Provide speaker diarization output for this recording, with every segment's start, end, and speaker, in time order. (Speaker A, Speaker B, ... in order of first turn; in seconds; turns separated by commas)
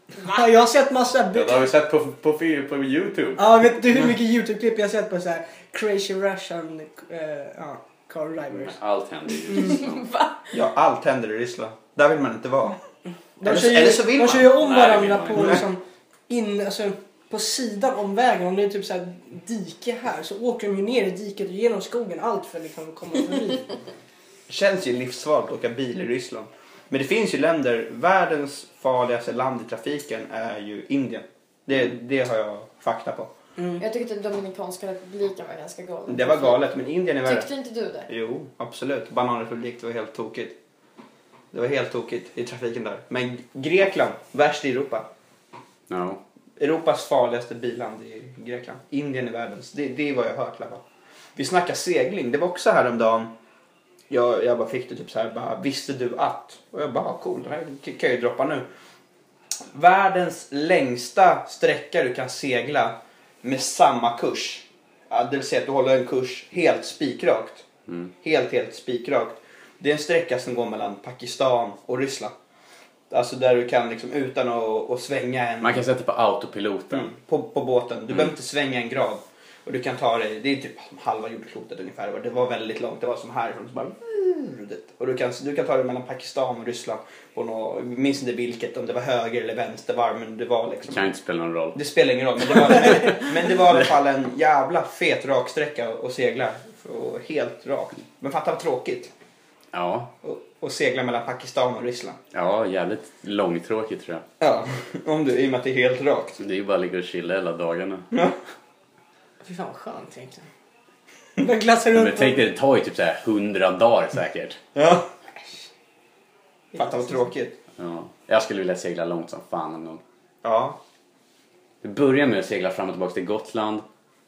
Speaker A: 0.2-1.6, Speaker B: 1.3-3.6, Speaker A: 3.4-8.8, Speaker B: 8.6-10.1, Speaker C: 9.6-10.4, Speaker D: 10.5-12.8, Speaker A: 13.4-23.8, Speaker D: 13.4-14.6, Speaker B: 14.4-15.7, Speaker D: 24.5-33.3, Speaker A: 33.6-33.8, Speaker C: 33.8-36.6, Speaker D: 36.1-37.5, Speaker C: 37.2-38.1, Speaker D: 38.1-40.6, Speaker D: 41.5-45.1, Speaker B: 45.9-46.2, Speaker D: 46.6-50.8, Speaker D: 51.4-53.3, Speaker D: 54.1-58.7, Speaker D: 59.7-67.7, Speaker D: 68.2-72.3, Speaker D: 73.1-75.8, Speaker B: 75.6-77.1, Speaker D: 76.9-91.1, Speaker B: 90.9-91.8, Speaker D: 91.8-99.1, Speaker B: 92.5-93.2, Speaker B: 99.7-100.1, Speaker D: 100.2-102.2, Speaker B: 102.3-104.2, Speaker D: 104.4-106.4, Speaker B: 106.4-108.1, Speaker A: 109.4-110.5, Speaker A: 111.4-112.4, Speaker B: 111.9-114.6, Speaker D: 114.8-115.1, Speaker A: 116.7-117.2, Speaker D: 116.8-117.6, Speaker B: 117.8-120.0, Speaker D: 120.4-120.8, Speaker B: 121.8-123.8